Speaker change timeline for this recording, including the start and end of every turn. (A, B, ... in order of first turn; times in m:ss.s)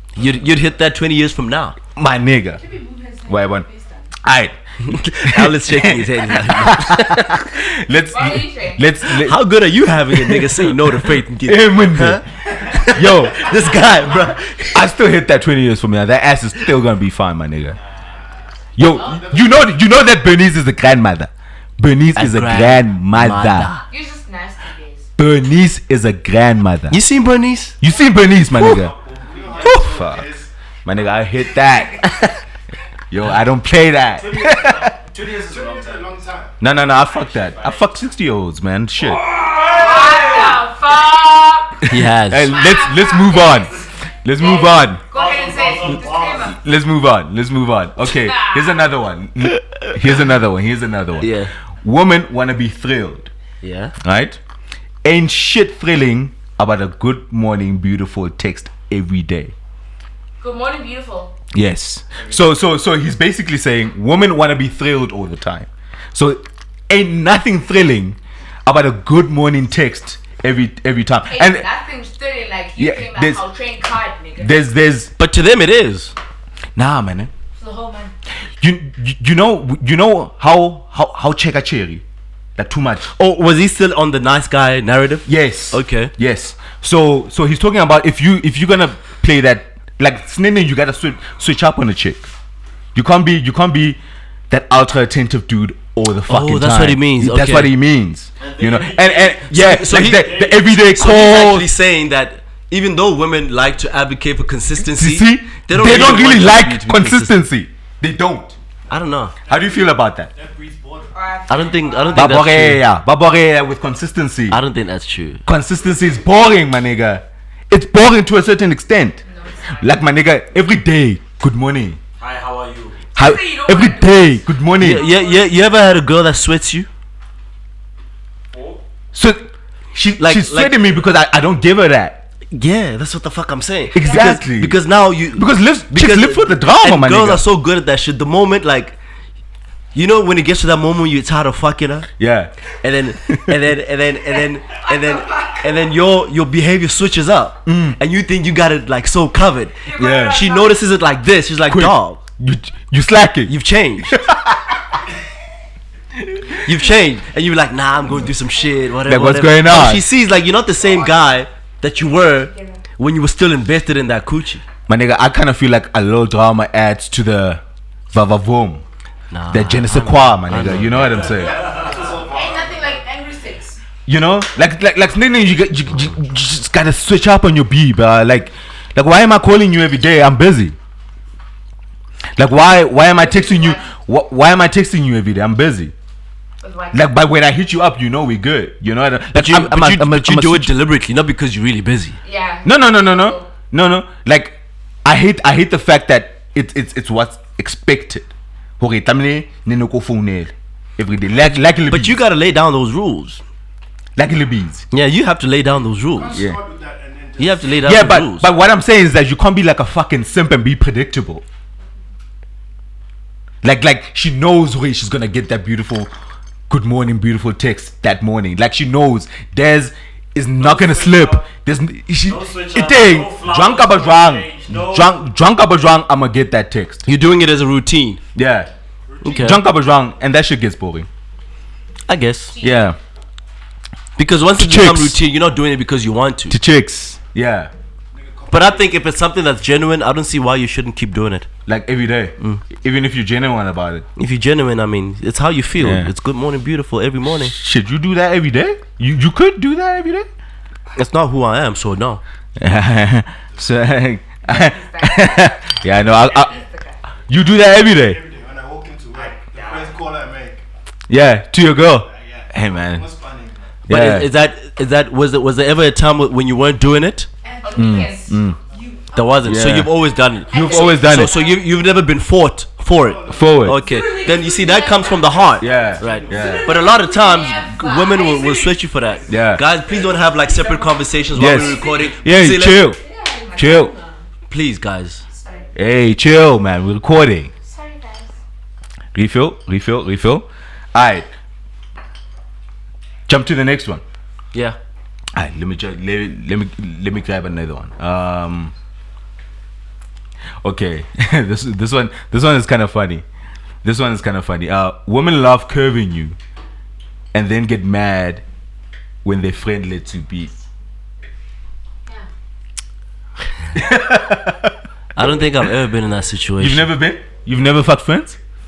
0:00.2-0:01.8 A
0:02.0-0:02.6 B
0:02.6-0:04.1 C
0:03.3-0:03.7 B
0:04.2-0:09.4 B
0:04.8-0:07.4 A
0:08.1-0:08.8 C
0:09.1-0:14.8 A
0:10.1-0:13.7 B
0:14.7-0:17.8 B
0:18.1-0:19.9 D
0:18.8-0:23.7 B
0:18.9-0:19.2 C
0:22.1-0:23.8 A
0:23.9-0:25.1 C
0:25.2-0:27.0 B
0:26.9-0:27.8 A
0:27.8-0:29.0 B
0:28.6-0:29.8 E
0:29.1-0:30.5 D
0:29.6-0:30.3 B
0:30.8-0:32.2 B
0:33.1-0:35.0 B
0:34.2-0:36.1 E
0:35.1-0:36.6 D
0:36.6-0:39.3 B
0:37.0-0:37.9 E
0:39.1-0:40.6 E
0:39.6-0:41.8 C
0:41.9-0:42.6 A
0:41.9-0:45.0 B
0:42.4-0:46.6 C
0:45.1-0:46.5 E
0:45.8-0:53.3 B
0:48.0-0:48.9 C
0:51.2-0:51.5 A
0:53.6-0:53.9 A
0:54.0-0:54.4 B
0:55.0-0:59.5 B
1:00.4-1:01.3 C
1:01.5-1:11.7 B
1:11.3-1:14.6 C
1:12.8-1:13.4 B
1:14.4-1:15.1 B
1:15.2-1:16.1 A
1:16.8-1:17.3 B
1:17.6-1:18.1 C
1:18.6-1:22.0 B
1:22.6-1:23.1 B
1:23.1-1:26.1 A
1:25.3-1:32.3 B
1:33.0-1:34.0 B
1:34.5-1:41.7 B
1:36.3-1:37.7 A
1:38.4-1:39.4 E
1:39.4-1:47.4 A
1:40.1-1:40.6 E
1:44.8-1:48.6 B
1:48.9-1:49.3 A
1:49.4-1:51.4 D
1:49.5-1:50.3 B
1:51.1-1:52.4 C
1:51.5-1:52.8 A
1:52.1-1:54.6 B
1:54.5-1:55.4 A
1:55.4-1:59.2 B
1:59.2-2:00.0 C
1:59.8-2:02.0 B
2:02.2-2:03.0 E
2:03.1-2:05.0 B
2:03.2-2:05.6 C
2:04.8-2:06.9 A
2:08.5-2:08.8 E
2:09.1-2:12.2 B
2:10.2-2:10.8 A
2:12.5-2:19.0 A
2:13.9-2:14.8 B
2:14.0-2:14.3 C
2:15.3-2:17.4 B
2:19.9-2:22.1 A
2:22.2-2:22.5 B
2:22.8-2:32.2 A
2:23.2-2:23.5 B
2:24.7-2:25.7 C
2:27.7-2:28.0 B
2:29.9-2:30.8 C
2:29.9-2:30.5 B
2:31.7-2:34.8 B
2:33.5-2:34.2 A
2:36.2-2:36.6 B
2:36.6-2:44.6 A
2:38.2-2:38.6 C
2:39.0-2:40.1 B
2:40.8-2:41.2 C
2:42.0-2:42.8 C
2:44.9-2:48.8 B
2:49.3-2:51.3 A
2:49.5-2:51.6 B
2:51.0-2:53.0 D
2:51.4-2:52.3 E
2:51.8-2:53.8 C
2:54.1-3:00.8 B
3:02.4-3:05.9 B
3:03.1-3:03.9 C
3:06.6-3:07.1 C
3:06.9-3:10.7 B
3:09.3-3:12.2 A
3:12.2-3:13.5 C
3:12.6-3:22.2 B
3:21.9-3:23.4 A
3:24.2-3:24.9 B
3:24.9-3:26.4 A
3:26.1-3:27.8 D
3:27.4-3:28.5 A
3:27.8-3:31.4 B
3:33.6-3:36.1 B
3:36.7-3:47.1 B
3:40.6-3:41.4 E
3:42.2-3:45.2 E
3:47.1-3:48.2 A
3:48.4-3:48.7 B
3:49.1-3:49.6 D
3:49.2-3:49.6 A
3:49.3-3:51.1 B
3:52.1-3:52.6 A
3:52.5-3:52.9 C
3:52.6-3:53.0 B
3:54.2-3:56.6 A
3:54.6-3:55.2 B
3:56.5-3:57.7 B
3:58.1-3:59.1 D
3:58.5-4:01.5 A
4:01.7-4:04.1 B
4:04.2-4:07.5 A
4:05.8-4:06.1 B
4:07.3-4:10.3 B
4:11.0-4:12.2 A
4:12.6-4:16.5 B
4:14.4-4:17.0 C
4:17.3-4:18.2 B
4:17.7-4:20.6 D
4:19.1-4:20.0 E
4:21.1-4:23.1 B
4:21.7-4:23.8 D
4:23.9-4:24.3 B
4:23.9-4:27.3 A
4:27.4-4:29.7 C
4:27.7-4:28.6 B
4:29.1-4:42.9 A
4:29.4-4:29.9 B
4:30.5-4:31.4 B
4:30.5-4:31.7 C
4:32.9-4:37.1 D
4:33.3-4:33.8 B
4:33.8-4:35.6 C
4:35.6-4:36.8 B
4:36.3-4:39.1 C
4:39.3-4:39.6 B
4:39.3-4:41.9 D
4:41.3-4:43.0 B
4:41.4-4:41.9 C
4:43.0-4:44.2 C
4:43.5-4:43.9 B
4:44.5-4:45.2 A
4:45.3-4:45.7 C
4:45.7-4:47.5 B
4:47.6-4:48.3 C
4:49.1-4:51.3 B
4:53.3-4:54.0 B
4:55.3-4:58.7 B
5:00.6-5:03.2 B
5:03.8-5:06.4 B
5:07.3-5:08.4 B
5:09.2-5:10.6 B
5:13.7-5:15.5 B
5:15.1-5:16.9 A
5:16.6-5:18.4 B